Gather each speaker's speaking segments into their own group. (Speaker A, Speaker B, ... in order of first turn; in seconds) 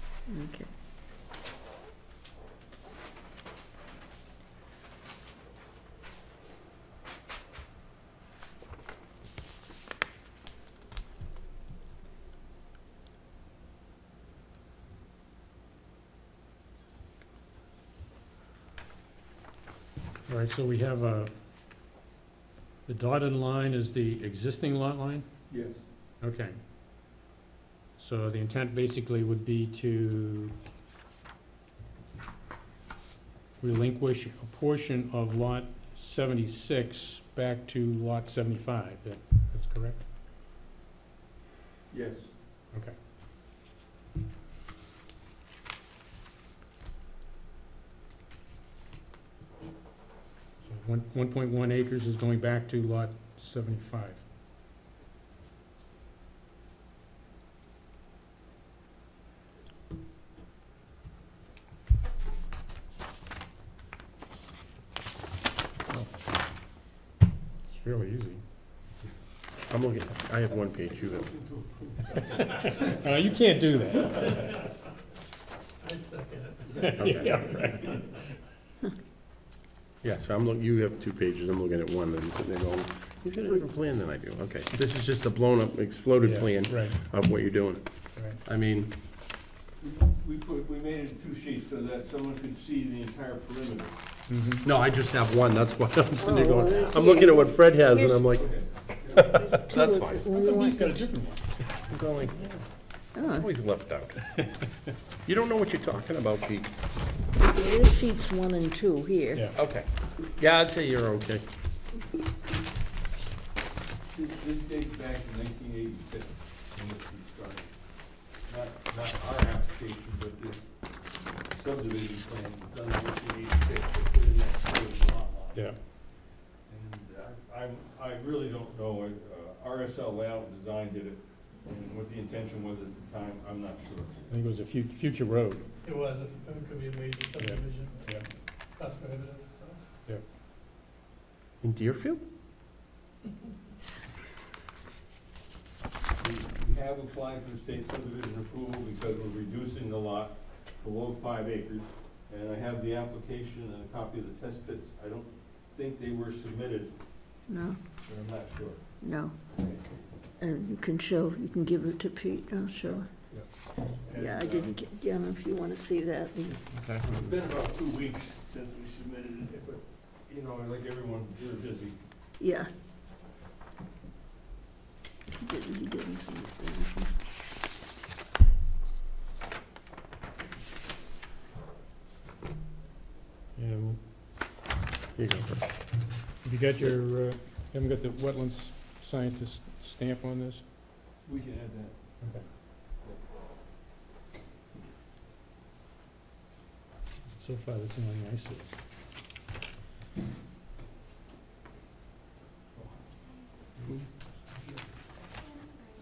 Speaker A: 0.3-0.7, 96.2-98.4, 99.2-101.1, 103.2-103.5, 107.4-109.4, 157.5-157.8, 159.0-159.4, 160.4-163.3, 164.1-166.6, 172.4-172.7, 175.4-177.2
Speaker B: 20.3-21.3, 22.9-25.5, 26.2-26.6, 28.0-30.6, 33.6-40.0, 42.7-43.0, 50.6-54.2, 67.7-68.4, 72.3-74.4, 76.8-78.2, 86.2-87.0, 94.3-94.7, 100.3-101.5, 134.3-135.7, 137.4-138.3, 183.6-184.0, 186.4-190.6, 192.2-192.5, 197.3-198.7
Speaker C: 25.5-25.8, 41.9-42.3, 71.1-72.8, 77.6-77.9, 89.8-94.0, 98.3-99.3, 114.1-125.8, 126.7-134.3, 146.2-157.0, 158.0-158.9, 159.6-159.8, 163.3-164.8, 167.0-172.0, 191.2-192.0
Speaker D: 69.7-71.4, 77.0-77.7, 80.0-88.9, 94.6-98.5, 99.1-100.2, 101.8-104.5, 105.2-106.7, 109.5-111.5, 141.6-142.2, 166.8-167.1, 185.2-186.9
Speaker E: 75.8-76.5, 135.8-138.1, 138.8-139.7, 204.6-204.9